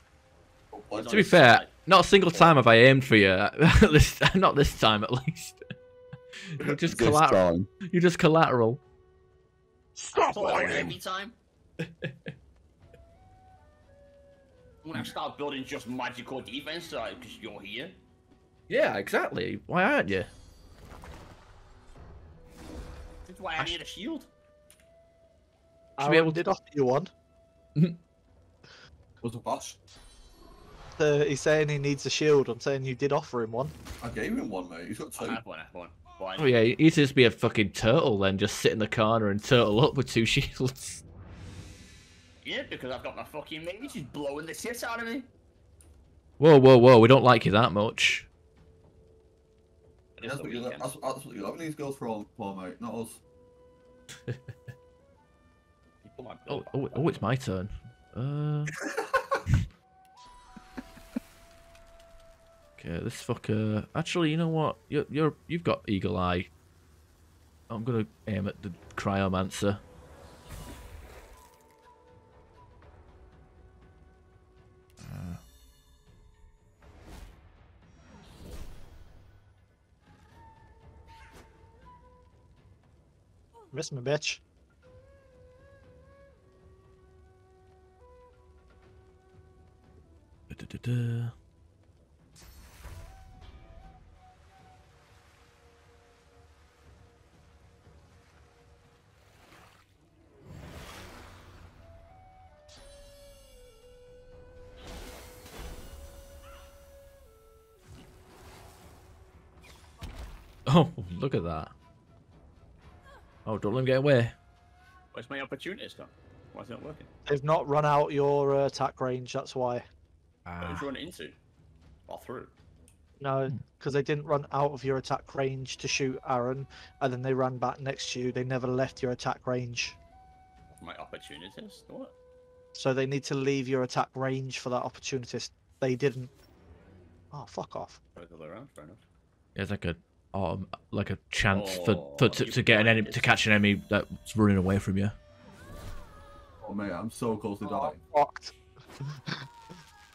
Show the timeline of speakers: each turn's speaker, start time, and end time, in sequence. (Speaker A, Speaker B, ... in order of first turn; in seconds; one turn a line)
Speaker A: 0.7-1.4
Speaker B: 0.9-1.7
Speaker C: 1.1-5.6
Speaker B: 2.3-2.6
Speaker C: 6.5-8.8
Speaker A: 6.6-7.7
Speaker A: 10.0-10.9
Speaker B: 10.3-11.4
Speaker C: 11.8-12.1
Speaker B: 14.8-18.0
Speaker C: 18.7-20.3
Speaker B: 23.2-24.3
Speaker D: 26.0-27.1
Speaker C: 26.0-26.5
Speaker A: 29.2-29.8
Speaker D: 31.0-33.8
Speaker A: 34.0-35.4
Speaker B: 35.2-36.7
Speaker C: 36.4-41.0
Speaker B: 42.4-45.3
Speaker C: 46.4-48.3
Speaker B: 50.2-50.9
Speaker A: 50.2-53.2
Speaker B: 56.0-57.3
Speaker C: 56.5-58.8
Speaker A: 58.8-59.4
Speaker C: 62.8-66.5
Speaker C: 67.7-69.8
Speaker C: 75.0-75.4
Speaker D: 83.7-84.4
Speaker C: 90.5-91.3
Speaker C: 110.7-111.7
Speaker C: 113.5-114.4
Speaker B: 115.1-117.1
Speaker D: 117.3-119.8
Speaker C: 120.5-120.9
Speaker B: 120.6-121.4
Speaker B: 122.1-122.5
Speaker D: 123.2-130.0
Speaker B: 130.7-132.2
Speaker D: 132.8-136.3
Speaker D: 137.3-138.0
Speaker B: 138.2-139.0
Speaker C: 139.6-145.2
Speaker B: 141.5-143.4
Speaker A: 146.6-148.0
Speaker D: 147.6-149.4